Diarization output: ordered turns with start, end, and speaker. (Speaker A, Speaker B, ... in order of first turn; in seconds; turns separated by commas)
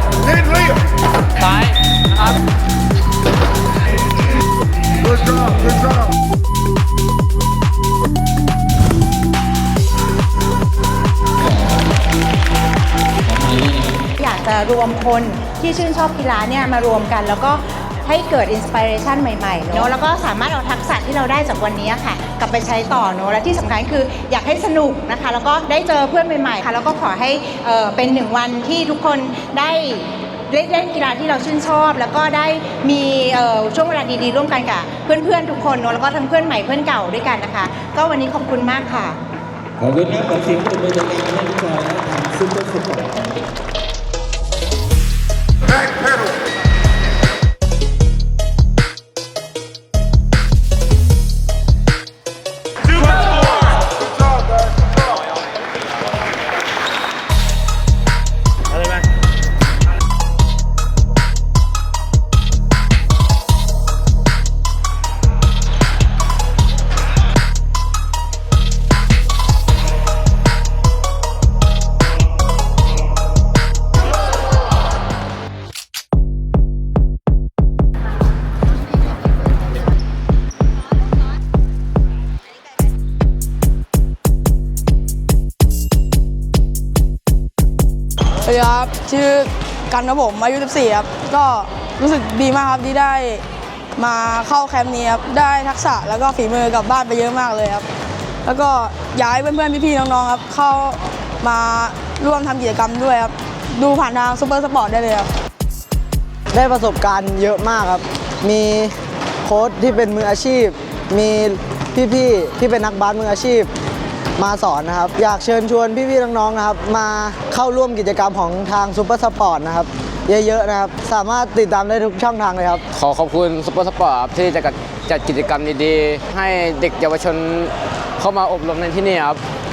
Speaker A: 13.3-13.7, Speaker B: 14.2-39.2, Speaker A: 39.8-43.3, Speaker C: 88.5-93.4, Speaker C: 94.0-97.9, Speaker C: 98.5-105.3, Speaker D: 106.5-108.9, Speaker D: 109.5-113.7, Speaker D: 114.4-122.8, Speaker E: 122.9-129.4